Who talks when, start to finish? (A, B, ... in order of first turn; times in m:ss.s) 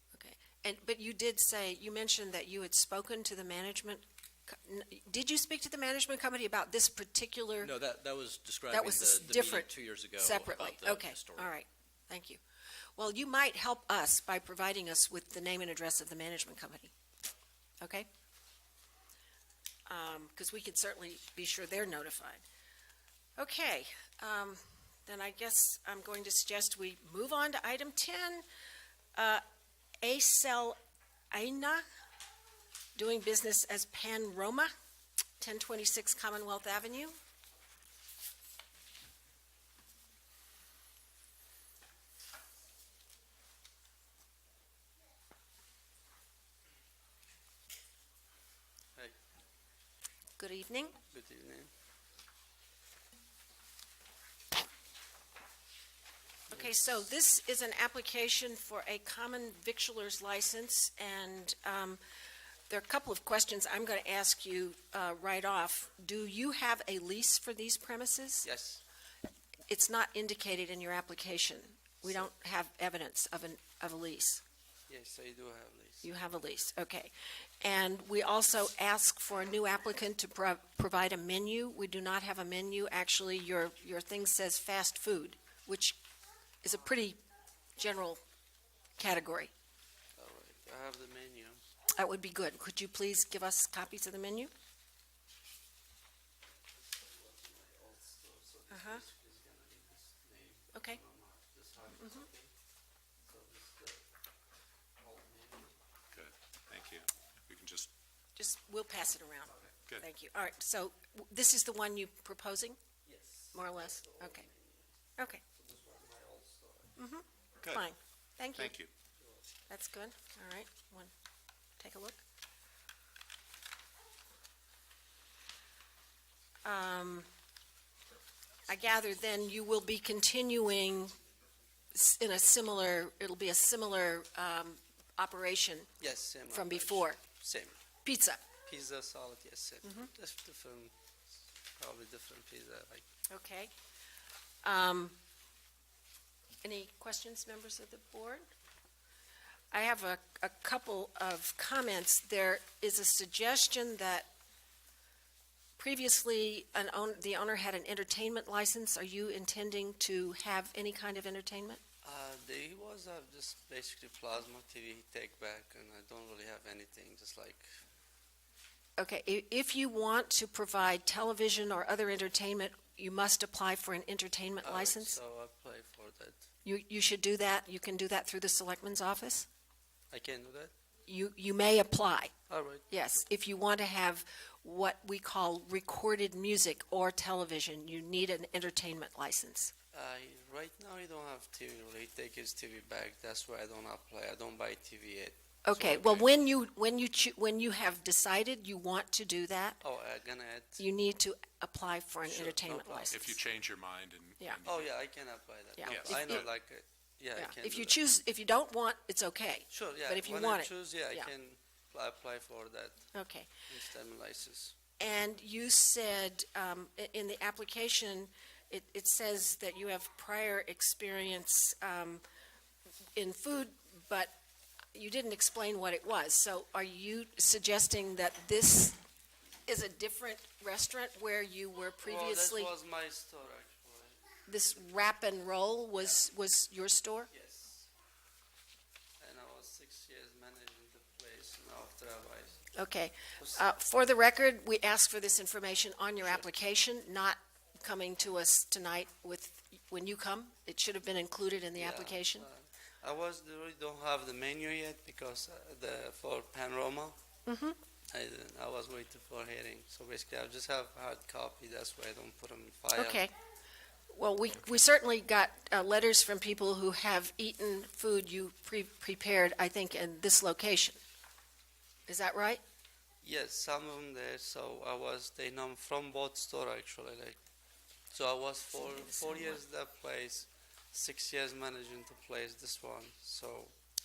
0:00.1-0:07.7 A
0:07.6-0:11.5 B
0:08.7-0:12.4 A
0:13.0-0:16.9 A
0:17.8-0:18.1 A
0:19.9-0:22.4 A
0:23.4-0:28.4 A
0:29.2-0:29.4 A
0:30.0-0:30.8 A
0:31.3-0:31.8 A
0:33.0-0:34.7 A
0:35.4-0:37.2 A
0:50.4-0:51.0 A
0:51.1-0:51.7 C
0:56.5-1:02.0 A
0:56.5-0:56.8 C
1:02.7-1:08.5 A
1:08.4-1:08.8 C
1:09.7-1:14.4 A
1:14.9-1:16.0 C
1:16.0-1:26.0 A
1:26.6-1:27.2 A
1:27.8-1:28.2 A
1:29.0-1:29.5 A
1:30.2-1:31.6 C
1:32.0-1:34.5 A
1:36.8-1:42.5 C
1:38.7-1:39.0 A
1:40.7-1:41.0 A
1:41.9-1:42.3 A
1:43.3-1:44.0 C
1:45.0-1:45.8 C
1:46.1-1:47.9 D
1:48.4-1:52.8 A
1:53.0-1:55.0 C
1:53.5-1:54.5 A
1:55.6-1:57.0 C
1:57.0-1:58.8 A
1:58.6-1:58.9 D
1:59.2-1:59.4 C
1:59.7-2:01.1 A
2:01.8-2:02.2 A
2:06.6-2:07.3 A
2:08.7-2:11.2 A
2:11.9-2:15.9 A
2:16.0-2:17.8 C
2:16.5-2:17.2 A
2:18.0-2:18.4 A
2:18.7-2:20.9 C
2:19.8-2:20.1 A
2:21.7-2:23.0 C
2:23.3-2:23.7 A
2:24.6-2:25.2 A
2:26.6-2:28.5 A
2:29.7-2:34.3 A
2:35.8-2:41.8 A
2:42.0-2:47.7 C
2:49.0-2:55.2 A
2:54.6-2:56.5 C
2:56.6-2:59.5 A
3:00.1-3:00.7 C
3:01.1-3:02.3 A
3:02.5-3:02.8 C
3:02.9-3:09.7 A
3:09.9-3:16.3 C
3:15.6-3:19.8 A
3:19.8-3:20.8 C
3:20.8-3:23.3 A
3:22.2-3:23.3 C
3:23.1-3:25.0 D
3:24.7-3:28.0 C
3:25.8-3:26.5 A
3:25.8-3:26.5 D
3:27.4-3:31.3 A
3:29.7-3:33.1 C
3:33.1-3:33.5 A
3:33.7-3:34.8 C
3:35.0-3:42.2 A
3:43.2-3:44.4 A
3:44.9-3:49.0 A
3:49.7-3:52.7 A
3:52.0-3:54.2 C
3:54.5-3:57.3 A
3:57.3-3:57.9 C
3:59.2-4:02.7 C
4:02.8-4:12.5 A
4:03.4-4:03.6 C
4:11.8-4:17.2 C
4:17.5-4:17.8 A
4:18.1-4:23.3 C
4:22.9-4:23.3 A
4:24.1-4:31.0 A
4:32.1-4:32.6 A
4:33.2-4:37.4 C
4:38.1-4:43.7 C
4:38.8-4:39.6 A